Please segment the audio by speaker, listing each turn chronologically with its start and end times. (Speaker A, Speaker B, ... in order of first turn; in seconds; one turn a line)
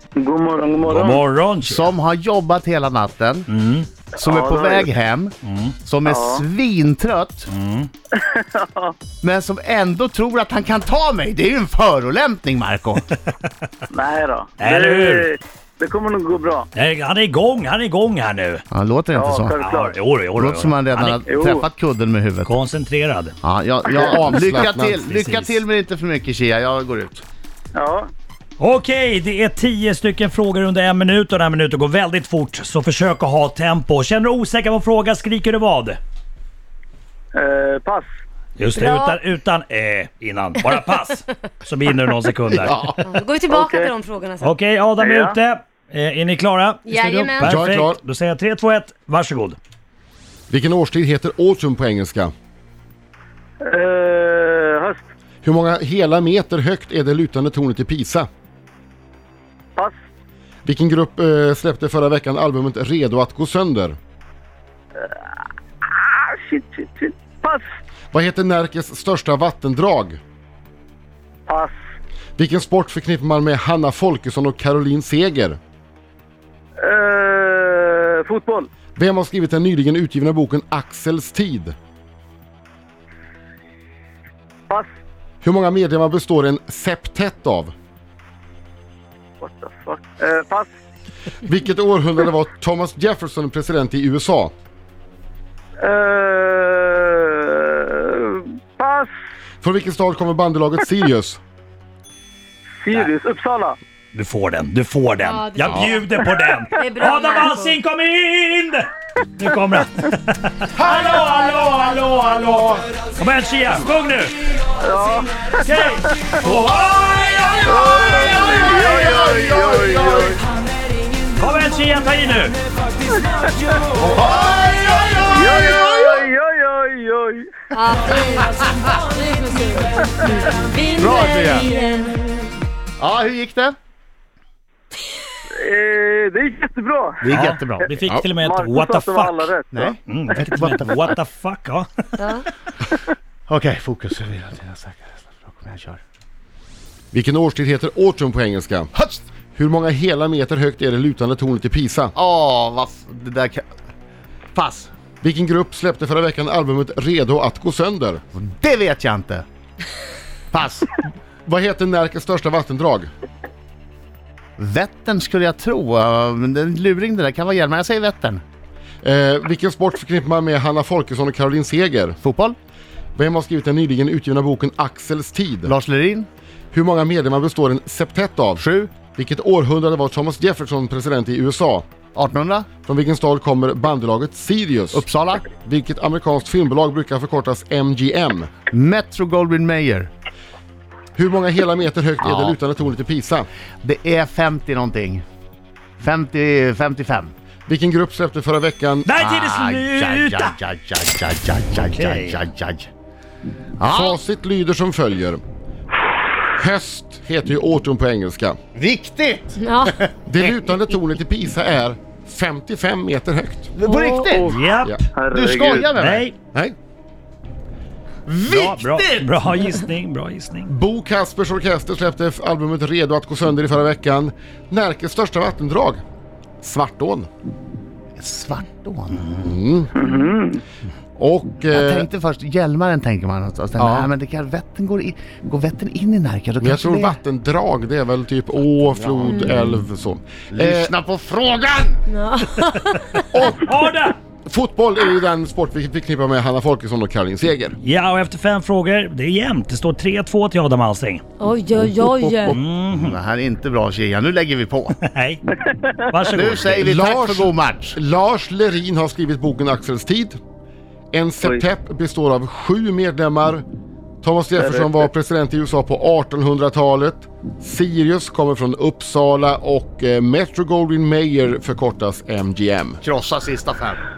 Speaker A: 0.1-1.2
Speaker B: 0.8-1.9
Speaker C: 1.6-3.5
Speaker B: 3.5-3.9
Speaker C: 4.1-7.5
Speaker A: 4.2-4.9
Speaker B: 5.4-5.7
Speaker A: 6.0-6.4
Speaker B: 7.5-7.9
Speaker A: 8.1-8.9
Speaker C: 9.2-13.1
Speaker A: 13.9-16.7
Speaker B: 14.6-15.3
Speaker B: 16.7-18.6
Speaker C: 18.7-19.6
Speaker A: 19.1-19.9
Speaker B: 19.6-21.2
Speaker C: 20.4-22.5
Speaker A: 21.2-21.6
Speaker B: 22.4-23.3
Speaker C: 23.4-27.2
Speaker D: 23.9-25.0
Speaker B: 25.0-25.6
Speaker A: 27.7-28.1
Speaker B: 28.6-36.0
Speaker A: 37.3-38.1
Speaker B: 38.6-43.1
Speaker E: 38.8-39.2
Speaker E: 43.0-44.5
Speaker A: 43.5-43.9
Speaker B: 44.4-49.6
Speaker A: 45.0-45.3
Speaker E: 46.9-47.5
Speaker D: 47.4-48.0
Speaker D: 50.5-52.3
Speaker A: 53.6-55.0
Speaker D: 55.4-58.3
Speaker D: 60.6-64.0
Speaker A: 65.8-67.6
Speaker D: 68.1-70.2
Speaker A: 71.5-71.7
Speaker D: 72.4-75.6
Speaker A: 76.8-78.7
Speaker D: 78.9-81.7
Speaker D: 85.4-87.7
Speaker A: 89.4-90.7
Speaker D: 91.4-94.5
Speaker A: 95.8-99.1
Speaker D: 99.6-101.4
Speaker A: 102.8-103.8
Speaker B: 104.1-114.4
Speaker E: 105.2-106.0
Speaker E: 106.8-107.8
Speaker C: 110.8-112.6
Speaker A: 114.8-115.6
Speaker B: 115.5-119.2
Speaker A: 117.7-120.4
Speaker C: 118.1-120.4
Speaker B: 121.4-122.6
Speaker A: 123.3-123.8
Speaker C: 124.0-126.2
Speaker A: 125.3-127.5
Speaker E: 127.7-129.9
Speaker C: 128.2-128.9
Speaker E: 130.4-132.4
Speaker C: 131.0-131.7
Speaker C: 133.0-133.8
Speaker A: 135.5-137.3
Speaker C: 137.2-137.9
Speaker B: 137.3-139.5
Speaker A: 138.3-139.9
Speaker C: 139.7-141.1
Speaker B: 140.1-142.4
Speaker E: 142.2-142.4
Speaker C: 143.5-146.0
Speaker D: 147.1-148.9
Speaker C: 148.9-149.2
Speaker D: 149.6-152.1
Speaker C: 152.1-153.7
Speaker C: 154.5-154.9
Speaker D: 155.2-158.2
Speaker C: 158.3-159.4
Speaker C: 160.5-160.9
Speaker D: 161.4-163.1
Speaker C: 164.6-168.4
Speaker D: 169.0-172.2
Speaker C: 172.2-172.6
Speaker D: 173.2-175.7
Speaker C: 175.6-176.3
Speaker D: 176.7-181.8
Speaker C: 178.6-178.9
Speaker C: 182.1-182.7
Speaker D: 182.8-188.5
Speaker C: 184.9-185.4
Speaker C: 188.7-190.1
Speaker D: 191.2-193.5
Speaker C: 192.2-192.6
Speaker C: 193.8-195.2
Speaker C: 196.0-197.3
Speaker D: 197.7-199.1
Speaker B: 199.1-200.6
Speaker C: 199.2-202.9
Speaker B: 201.7-202.4
Speaker C: 203.8-204.2
Speaker D: 203.8-205.4
Speaker D: 206.6-208.6
Speaker C: 208.7-210.2
Speaker E: 209.6-209.9
Speaker D: 210.2-213.7
Speaker C: 213.8-214.5
Speaker E: 213.9-214.2
Speaker A: 214.3-214.6
Speaker B: 214.5-215.0
Speaker A: 215.1-215.9
Speaker C: 215.3-216.3
Speaker B: 215.8-216.3
Speaker C: 218.3-219.3
Speaker B: 218.4-220.7
Speaker D: 220.7-226.0
Speaker D: 226.6-227.3
Speaker C: 228.2-229.4
Speaker D: 229.4-230.0
Speaker A: 230.0-230.6
Speaker D: 231.2-232.1
Speaker C: 231.7-237.2
Speaker D: 233.8-234.1
Speaker D: 236.6-240.9
Speaker C: 240.5-242.0
Speaker E: 242.1-243.3
Speaker D: 243.3-243.6
Speaker B: 243.5-244.2
Speaker D: 244.4-247.8
Speaker B: 247.8-251.2
Speaker E: 251.4-252.6
Speaker D: 251.9-252.6
Speaker B: 252.4-253.1
Speaker C: 252.9-254.9
Speaker B: 255.0-255.4
Speaker B: 256.1-256.8
Speaker C: 256.3-258.0
Speaker D: 256.8-260.4
Speaker D: 261.1-263.6
Speaker D: 264.2-273.0
Speaker A: 264.6-264.9
Speaker C: 273.0-274.0